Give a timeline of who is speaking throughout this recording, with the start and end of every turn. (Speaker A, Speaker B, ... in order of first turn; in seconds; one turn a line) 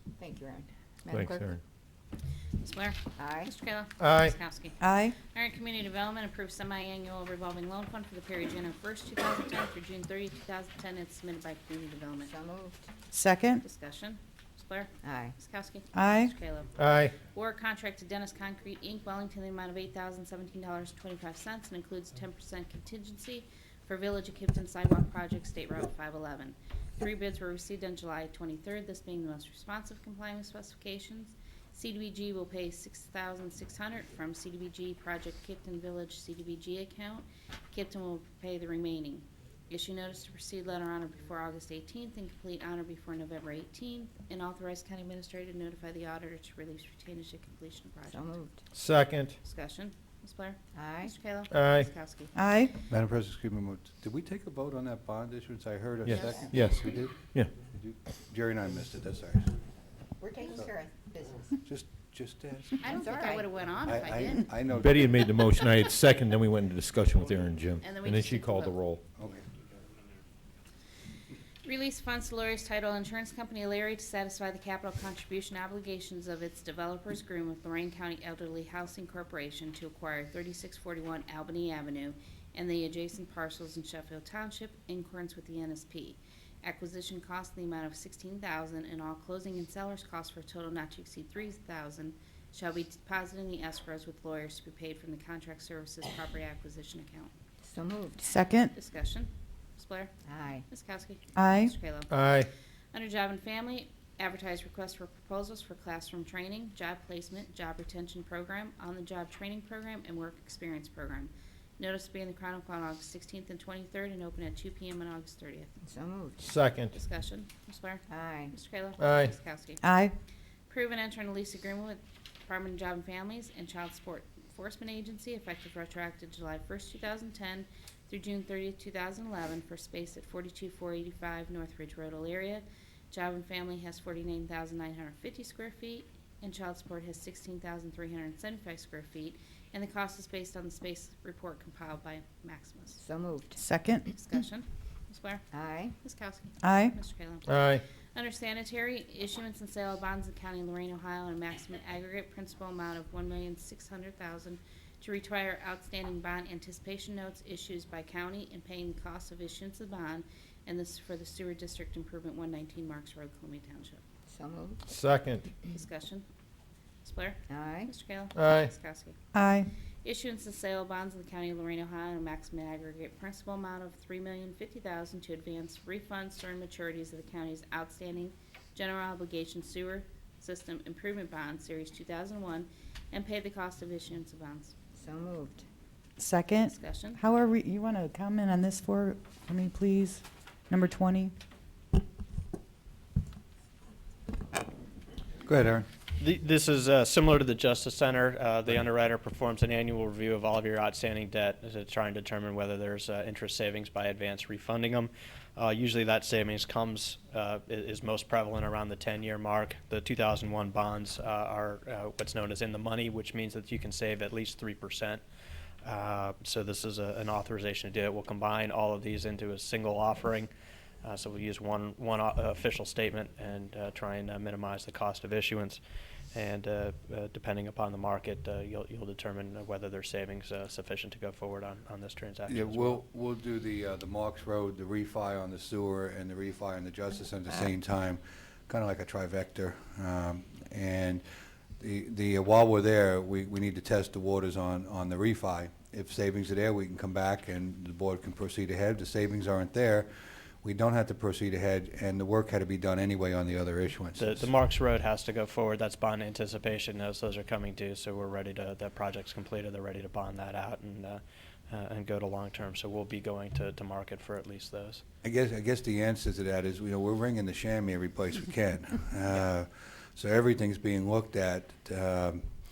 Speaker A: 0.2-1.4
Speaker B: 1.1-1.6
Speaker C: 2.6-12.3
Speaker A: 3.2-3.5
Speaker B: 4.0-4.3
Speaker D: 4.8-5.2
Speaker A: 12.2-12.9
Speaker D: 13.1-13.6
Speaker C: 13.6-48.3
Speaker A: 15.0-15.3
Speaker D: 15.9-16.3
Speaker B: 16.8-17.1
Speaker A: 48.1-48.6
Speaker B: 48.7-49.4
Speaker C: 49.4-52.3
Speaker A: 50.7-51.1
Speaker B: 51.5-51.9
Speaker D: 52.3-52.7
Speaker E: 52.9-59.6
Speaker B: 56.0-57.5
Speaker C: 56.1-56.4
Speaker A: 60.2-61.5
Speaker E: 61.6-62.8
Speaker C: 62.8-64.5
Speaker A: 62.8-63.5
Speaker E: 63.8-65.0
Speaker B: 64.7-69.0
Speaker C: 67.8-68.8
Speaker E: 69.2-69.5
Speaker C: 71.6-97.3
Speaker A: 97.6-98.3
Speaker D: 98.2-98.7
Speaker C: 98.7-100.1
Speaker A: 100.3-100.6
Speaker C: 100.7-102.2
Speaker D: 101.3-101.7
Speaker B: 102.1-102.5
Speaker C: 102.9-115.7
Speaker A: 115.9-116.4
Speaker B: 116.4-117.0
Speaker C: 116.9-119.8
Speaker A: 118.1-118.5
Speaker B: 119.0-119.3
Speaker D: 119.8-120.2
Speaker C: 120.7-143.0
Speaker A: 143.0-143.6
Speaker D: 143.6-144.1
Speaker C: 144.0-164.0
Speaker A: 145.5-145.9
Speaker D: 146.6-146.9
Speaker B: 147.5-147.8
Speaker A: 164.3-164.8
Speaker B: 164.9-165.5
Speaker C: 165.7-166.2
Speaker C: 167.0-169.2
Speaker A: 167.5-167.9
Speaker B: 168.3-168.7
Speaker D: 169.3-169.7
Speaker C: 170.0-184.7
Speaker A: 184.9-185.6
Speaker D: 186.2-191.3
Speaker C: 186.7-187.2
Speaker E: 195.4-195.8
Speaker F: 196.2-215.2
Speaker F: 215.8-220.5
Speaker F: 221.0-225.8
Speaker F: 226.3-233.0
Speaker E: 232.5-241.2
Speaker E: 241.8-250.1
Speaker E: 250.6-254.5
Speaker F: 254.2-265.0
Speaker E: 265.2-272.4